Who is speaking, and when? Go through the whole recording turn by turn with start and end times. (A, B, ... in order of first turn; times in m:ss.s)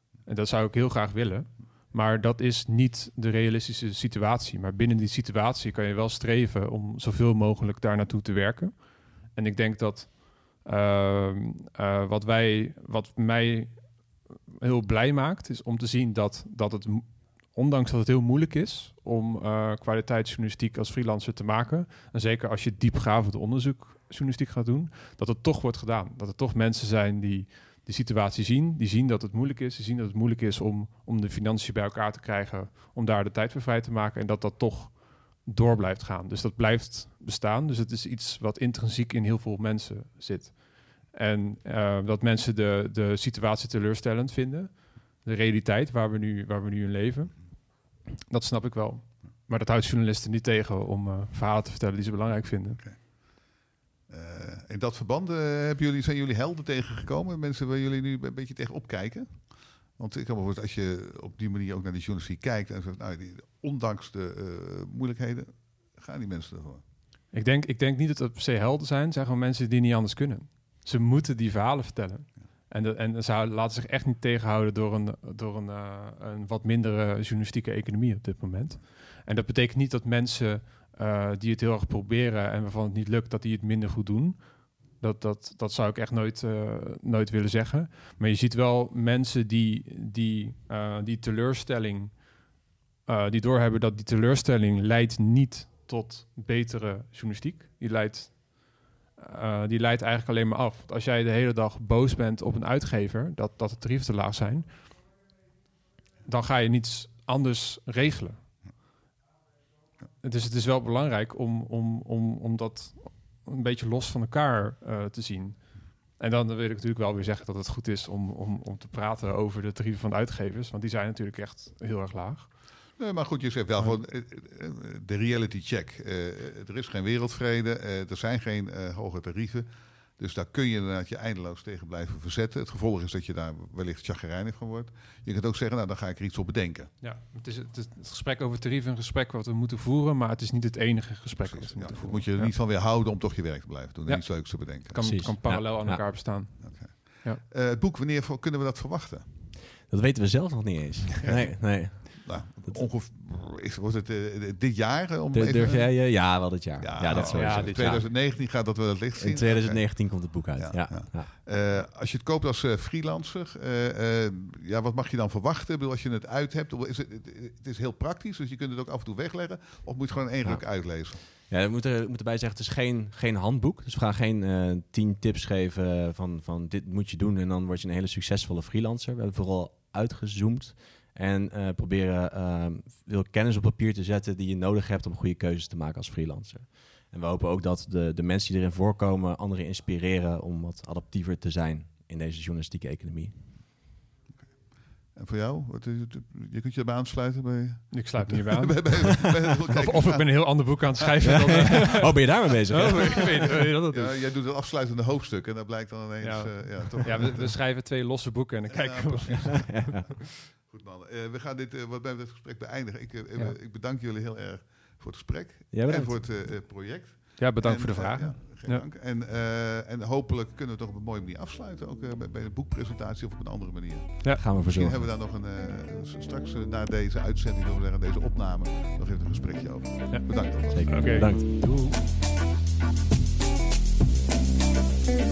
0:00.2-0:52.8 A
0:54.1-1:06.8 B
1:07.3-1:32.3 A
1:33.0-1:45.0 A
1:46.2-1:48.4 A
1:50.2-2:02.5 A
2:03.0-2:09.7 B
2:10.2-2:16.9 B
2:17.0-2:22.5 A
2:21.5-2:25.0 B
2:24.1-2:27.4 A
2:25.0-2:26.4 C
2:26.6-2:29.3 B
2:29.8-2:32.9 C
2:31.2-2:51.2 B
2:35.3-2:38.1 C
2:37.1-2:38.0 A
2:39.2-2:41.3 C
2:50.4-3:13.6 C
3:15.1-3:21.8 B
3:17.9-3:24.2 A
3:21.3-3:23.6 C
3:22.8-3:27.6 B
3:26.2-3:30.0 A
3:28.7-3:51.1 B
3:29.6-3:30.1 C
3:35.7-3:36.2 C
3:37.4-3:38.8 A
3:44.4-3:45.1 C
3:50.1-3:51.7 A
3:50.7-3:52.0 C